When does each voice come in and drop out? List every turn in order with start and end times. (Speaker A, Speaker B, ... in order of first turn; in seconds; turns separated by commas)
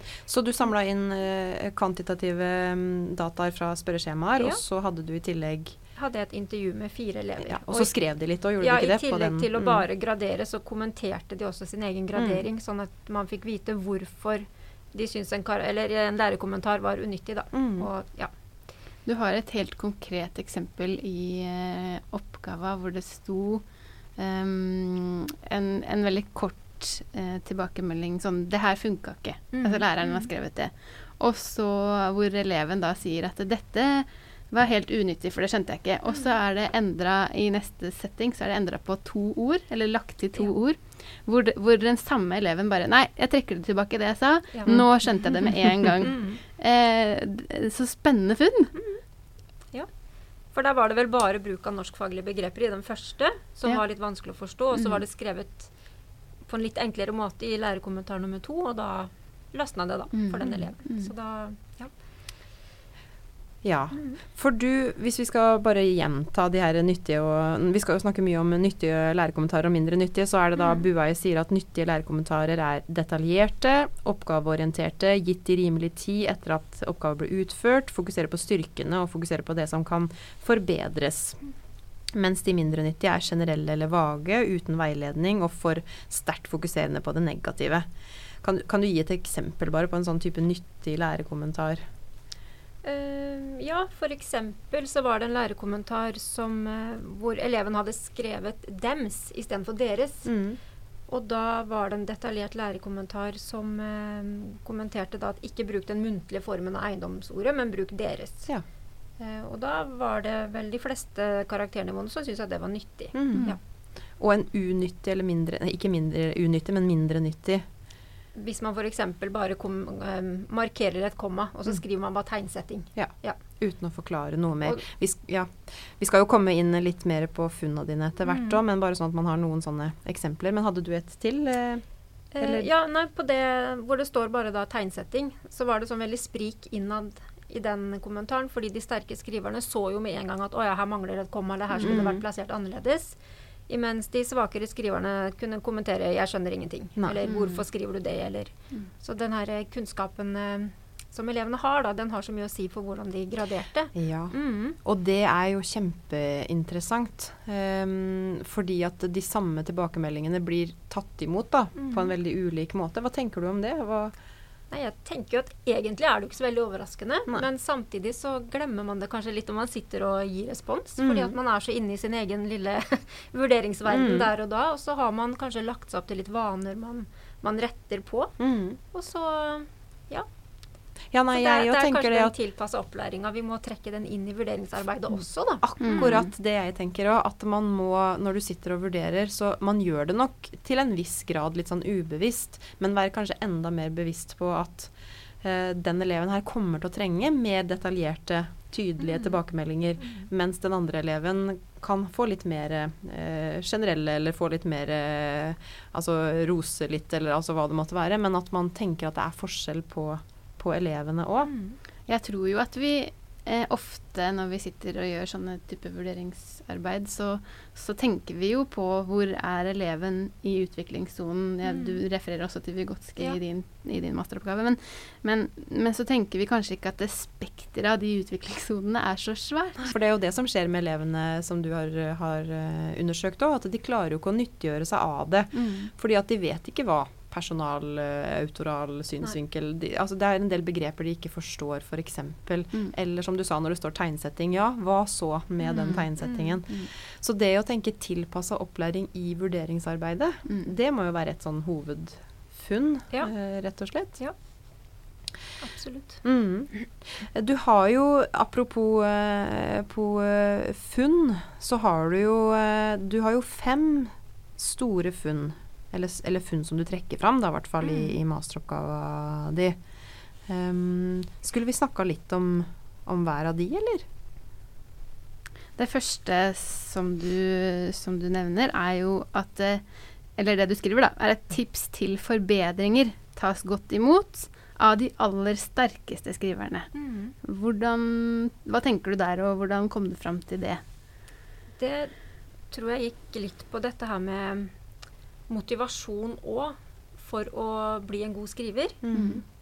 Speaker A: 0.3-5.8, Speaker B: 6.0-7.9, Speaker A: 7.5-9.8, Speaker B: 8.6-18.3, Speaker A: 12.2-12.4, Speaker A: 17.5-17.9, Speaker C: 19.1-23.6, Speaker C: 24.2-48.7, Speaker B: 29.5-30.3, Speaker B: 44.5-44.9, Speaker B: 46.0-46.4, Speaker B: 48.8-49.0, Speaker B: 50.5-55.7, Speaker B: 56.5-61.9, Speaker C: 60.1-61.1, Speaker A: 63.6-81.4, Speaker B: 63.9-64.2, Speaker B: 70.6-70.8, Speaker A: 82.1-87.9, Speaker A: 88.4-91.8, Speaker B: 92.8-100.3, Speaker A: 100.2-100.6, Speaker B: 101.1-108.5, Speaker B: 109.2-113.6, Speaker A: 113.1-113.6, Speaker A: 114.2-117.7, Speaker B: 118.3-123.4, Speaker A: 123.0-131.8, Speaker B: 128.2-128.6, Speaker B: 132.3-143.2, Speaker A: 132.4-132.7, Speaker C: 141.7-142.0, Speaker A: 141.8-142.2, Speaker B: 143.7-154.8, Speaker A: 147.0-147.6, Speaker A: 153.9-164.1, Speaker B: 161.8-162.1, Speaker B: 164.7-180.3, Speaker A: 171.0-171.3, Speaker A: 173.9-174.3, Speaker A: 178.4-178.8, Speaker A: 181.1-182.3, Speaker B: 181.3-186.2, Speaker A: 185.6-211.5, Speaker C: 185.8-186.3, Speaker B: 199.0-199.3, Speaker B: 211.4-211.8, Speaker C: 212.1-229.9, Speaker B: 221.6-222.0, Speaker A: 229.8-254.2, Speaker C: 235.5-235.9, Speaker B: 245.8-246.6, Speaker C: 250.5-250.7, Speaker B: 255.6-256.2, Speaker A: 256.2-269.8, Speaker A: 270.5-274.1, Speaker C: 275.8-279.8, Speaker C: 280.4-286.9, Speaker B: 286.9-287.4, Speaker C: 287.4-290.8, Speaker B: 291.8-292.1, Speaker B: 292.7-294.7, Speaker B: 295.5-299.0, Speaker A: 299.0-299.4, Speaker C: 299.1-299.4